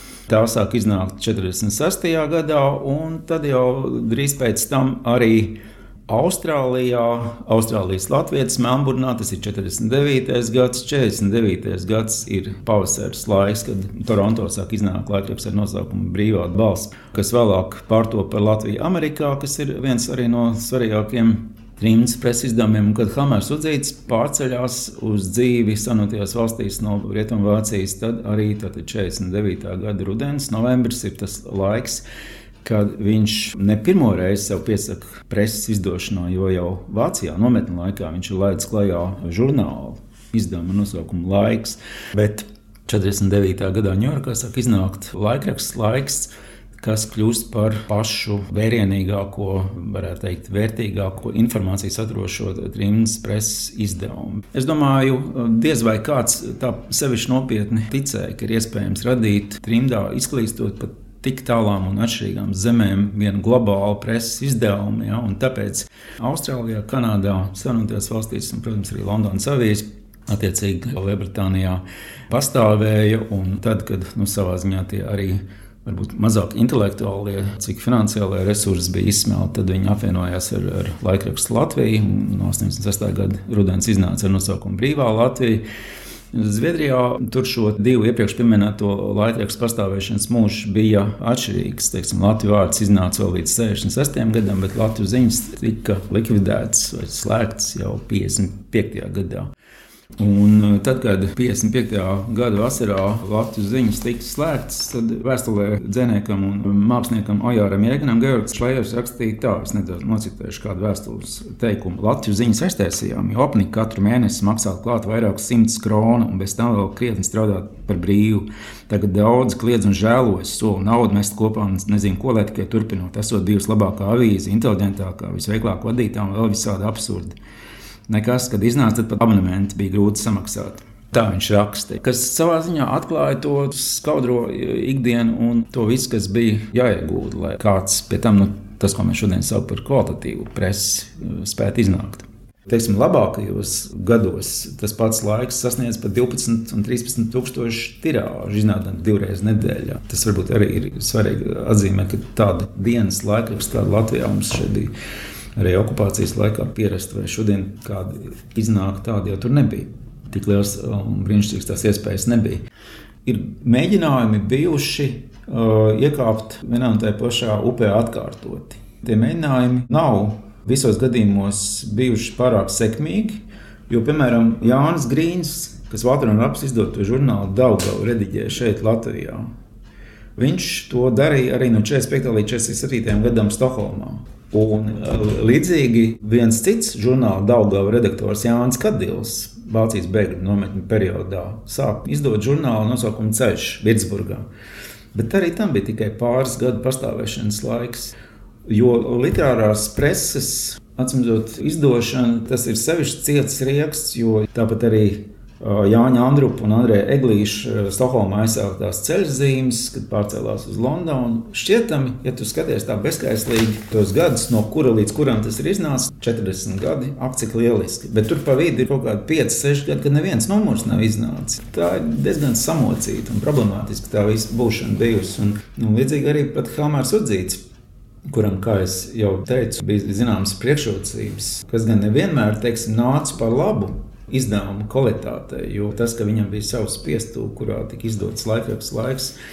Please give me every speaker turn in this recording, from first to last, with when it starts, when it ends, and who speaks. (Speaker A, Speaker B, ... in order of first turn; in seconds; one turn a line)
Speaker A: 0.3-32.0
Speaker A: 32.6-85.6
Speaker A: 86.3-99.5
Speaker A: 100.2-127.3
Speaker A: 128.1-154.9
Speaker A: 155.6-162.6
Speaker A: 163.2-179.5
Speaker A: 180.3-194.4
Speaker A: 195.1-198.1
Speaker A: 198.7-227.6
Speaker A: 228.3-239.3